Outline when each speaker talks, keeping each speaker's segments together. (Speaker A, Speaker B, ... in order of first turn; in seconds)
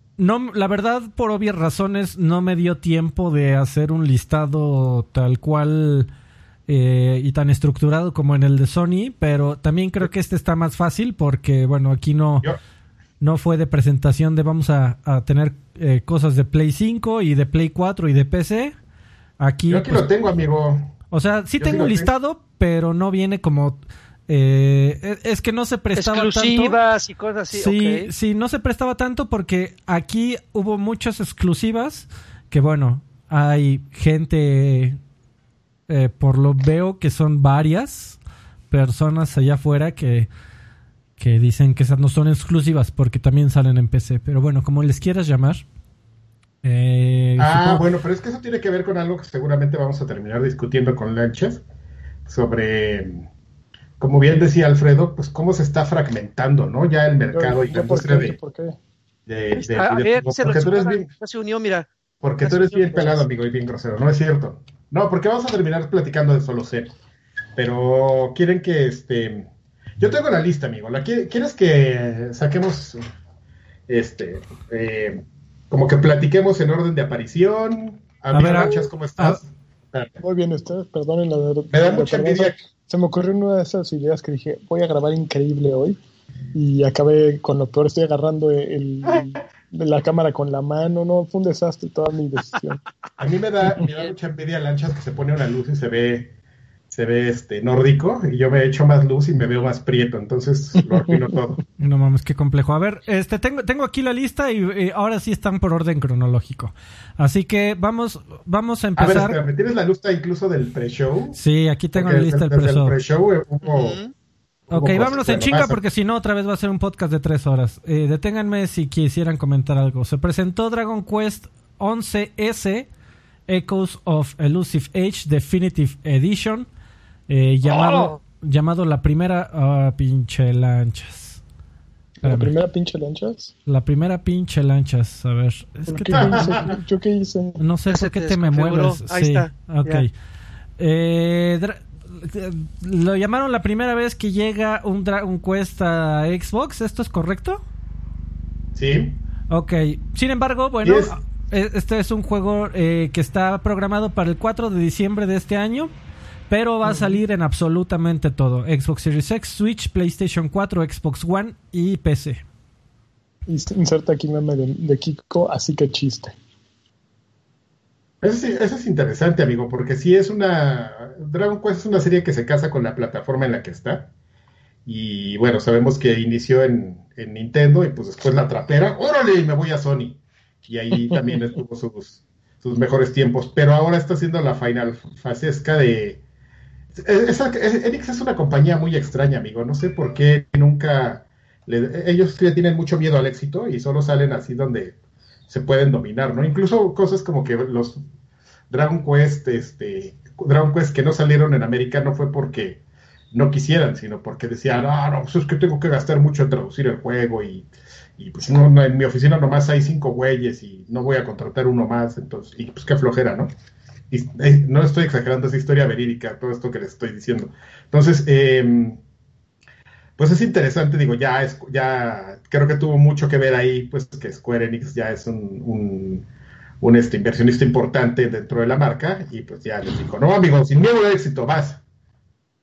Speaker A: 0.2-6.1, 6.7-12.5, 13.2-18.8, 19.4-20.1, 21.1-26.8, 27.5-35.0, 35.9-38.2, 38.7-40.3, 41.2-45.6, 46.6-47.8, 78.3-79.4, 101.8-109.4, 111.3-113.0, 114.7-122.9, 123.5-126.7, 127.3-131.4, 132.2-132.5, 133.7-136.6, 137.6-140.1, 140.8-147.6, 149.5-155.9, 156.5-162.4
Speaker B: 19.7-20.9, 21.6-22.1, 47.4-51.6, 52.3-53.3, 54.0-58.4, 59.3-61.1, 62.2-66.9, 67.6-73.0, 73.9-80.2, 81.7-82.6, 93.2-96.3, 96.9-101.6, 109.0-111.4, 111.9-114.0, 114.7-115.8, 136.1-136.7, 148.8-149.2, 150.8-151.2, 168.2-174.1, 174.9-186.2, 187.0-195.0, 195.5-198.0, 198.7-202.8, 203.3-213.5, 214.1-219.0, 220.2-226.3, 226.8-231.8
Speaker C: 26.0-28.1, 59.6-61.9, 62.4-63.2, 113.7-114.1, 127.7-128.2, 137.9-140.1
Speaker D: 57.3-58.8, 80.2-86.0, 86.5-92.8, 100.8-101.2, 132.2-133.5, 135.9-137.6, 163.5-166.3